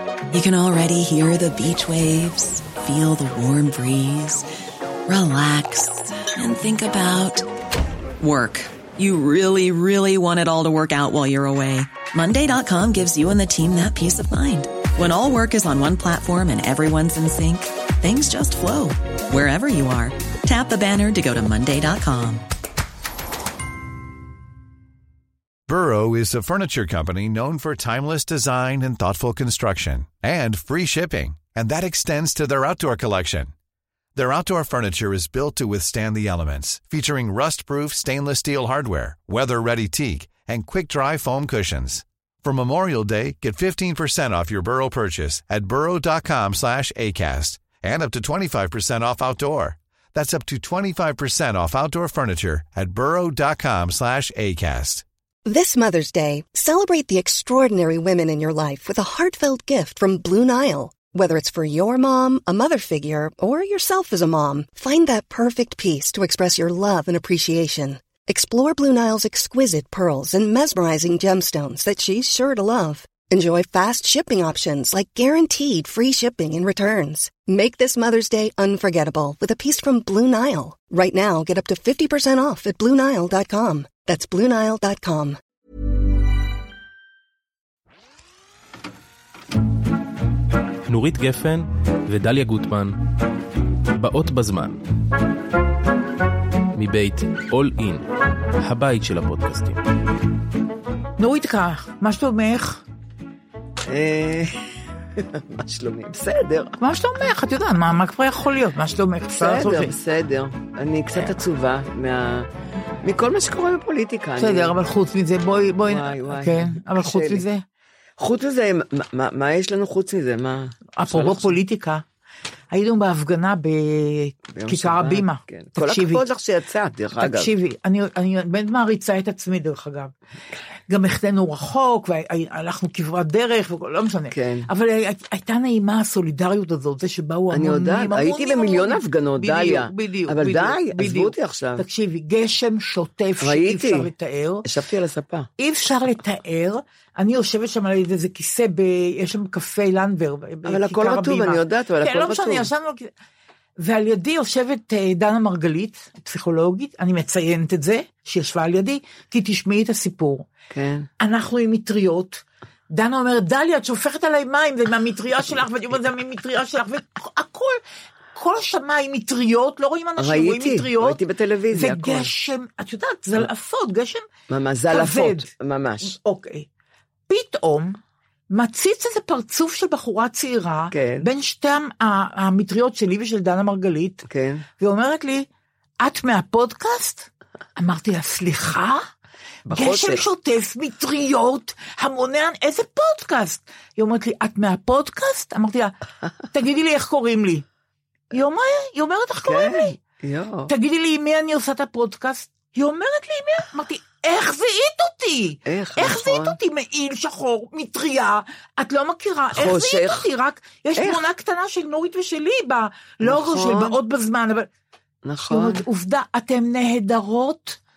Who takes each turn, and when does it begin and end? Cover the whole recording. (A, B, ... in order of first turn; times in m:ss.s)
0:00.3-0:04.5 A
0:05.1-0:07.5 A
0:08.2-0:22.4 A
0:25.7-0:33.5 B
0:34.2-0:55.0 B
0:55.4-1:25.4 C
1:30.8-1:33.0 D
1:33.9-1:34.8 D
1:36.7-1:38.0 D
1:38.6-1:39.8 D
1:41.2-1:42.8 E
1:43.9-1:44.6 F
1:45.2-1:46.8 F
1:46.8-1:49.9 E
1:49.3-1:52.5 F
1:53.0-1:54.7 F
1:54.4-1:57.6 E
1:55.8-1:57.4 F
1:58.2-2:01.6 F
2:01.0-2:02.0 E
2:02.7-2:06.2 E
2:04.5-2:07.5 F
2:07.2-2:10.1 E
2:10.9-2:24.6 E
2:14.3-2:14.7 F
2:17.5-2:21.8 F
2:23.4-2:24.1 F
2:24.6-2:25.5 F
2:25.6-2:33.1 E
2:30.6-2:32.7 F
2:33.8-2:40.5 E
2:40.7-2:41.1 F
2:41.2-2:47.8 E
2:48.3-2:51.2 E
2:50.2-2:52.3 F
2:51.7-2:54.2 E
2:54.5-2:56.1 F
2:54.9-2:55.5 E
2:56.0-2:56.7 E
2:57.3-2:58.0 E
2:58.5-3:04.2 E
3:00.9-3:01.3 F
3:04.3-3:04.6 F
3:04.8-3:05.5 E
3:06.0-3:09.0 E
3:09.7-3:10.2 F
3:09.7-3:15.9 E
3:16.5-3:17.6 E
3:18.3-3:20.0 E
3:19.4-3:20.7 F
3:20.7-3:34.7 E
3:25.6-3:26.6 F
3:29.5-3:30.3 F
3:31.0-3:31.2 F
3:33.2-3:34.0 F
3:35.2-3:35.8 F
3:35.5-3:37.8 E